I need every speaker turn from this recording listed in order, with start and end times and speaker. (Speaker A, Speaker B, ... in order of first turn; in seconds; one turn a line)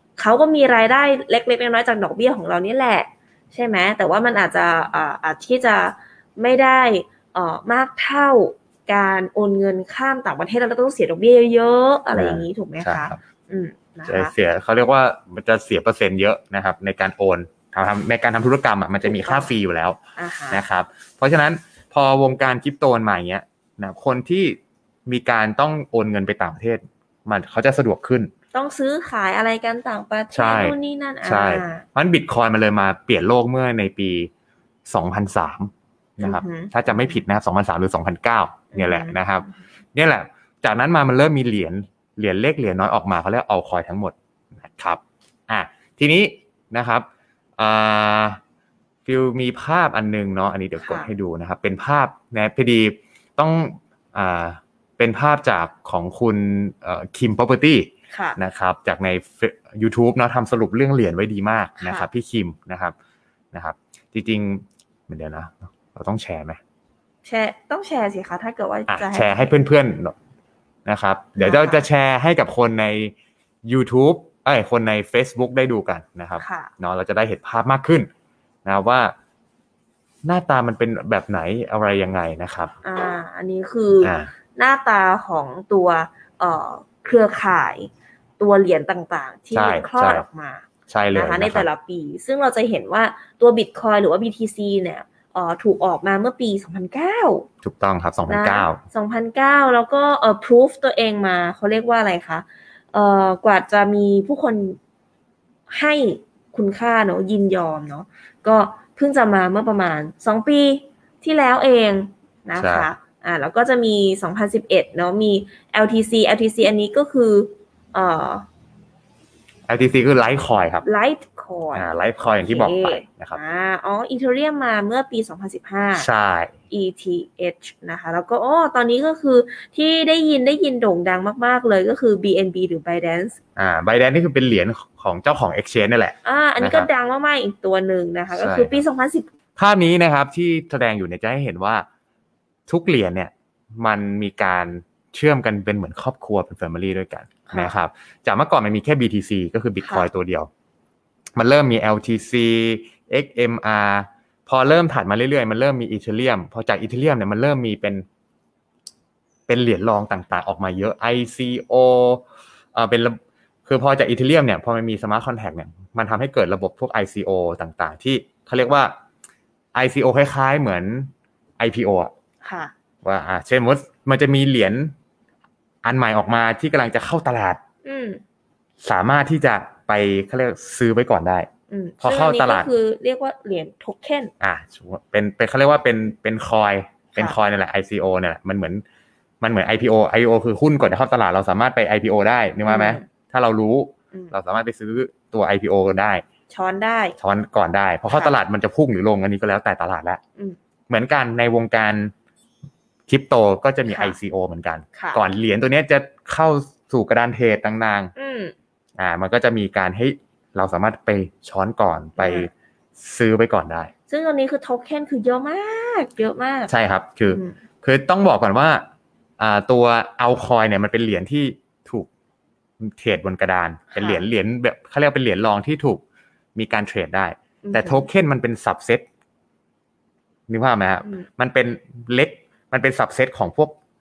Speaker A: 0.2-14.3
Speaker B: 12.1-13.2
Speaker B: 14.1-20.0
Speaker A: 19.0-19.5
Speaker A: 20.2-20.6
Speaker B: 20.5-28.3
Speaker A: 28.5-31.8
Speaker B: 30.3-34.3
Speaker B: 34.9-47.1
Speaker A: 36.2-37.2
Speaker A: 38.7-39.6
Speaker B: 47.6-48.4
Speaker B: 49.0-62.9
Speaker A: 50.8-51.1
Speaker A: 58.1-58.4
Speaker A: 61.8-62.1
Speaker B: 63.5-66.6
Speaker A: 67.2-69.6
Speaker B: 68.9-70.1
Speaker B: 70.8-73.1
Speaker A: 71.4-71.8
Speaker B: 73.6-78.1
Speaker A: 76.4-76.7
Speaker B: 78.6-79.1
Speaker B: 80.2-82.7
Speaker A: 82.8-97.5
Speaker B: 84.0-84.3
Speaker B: 89.5-90.2
Speaker B: 90.9-91.7
Speaker B: 97.6-98.8
Speaker A: 98.3-104.8
Speaker A: 105.7-118.5
Speaker B: 112.5-112.9
Speaker B: 119.7-120.8
Speaker A: 120.8-126.1
Speaker B: 121.7-123.4
Speaker B: 126.0-126.5
Speaker A: 126.7-133.3
Speaker B: 133.6-136.9
Speaker A: 136.2-139.3
Speaker B: 138.3-138.8
Speaker B: 139.6-141.8
Speaker B: 142.7-150.5
Speaker A: 147.4-147.7
Speaker A: 149.8-150.1
Speaker B: 151.3-158.0
Speaker B: 159.5-168.9
Speaker B: 169.7-172.1
Speaker A: 172.4-172.7
Speaker B: 173.0-174.9
Speaker B: 175.8-177.6
Speaker A: 177.8-178.2
Speaker B: 178.8-181.5
Speaker A: 181.7-184.3
Speaker B: 182.0-182.7
Speaker B: 184.4-188.8
Speaker B: 189.4-196.2
Speaker A: 192.6-193.0
Speaker A: 196.5-197.2
Speaker B: 197.2-200.2
Speaker A: 198.1-198.4
Speaker B: 200.9-202.1
Speaker B: 203.1-208.1
Speaker A: 203.9-204.2
Speaker A: 204.9-205.2
Speaker A: 208.2-208.5
Speaker B: 209.0-213.9
Speaker A: 212.2-212.5
Speaker A: 214.1-216.7
Speaker B: 216.7-218.8
Speaker A: 217.3-217.5
Speaker B: 219.4-222.1
Speaker B: 222.8-226.0
Speaker A: 223.9-224.2
Speaker B: 226.5-229.1
Speaker A: 227.6-228.1
Speaker B: 230.5-233.7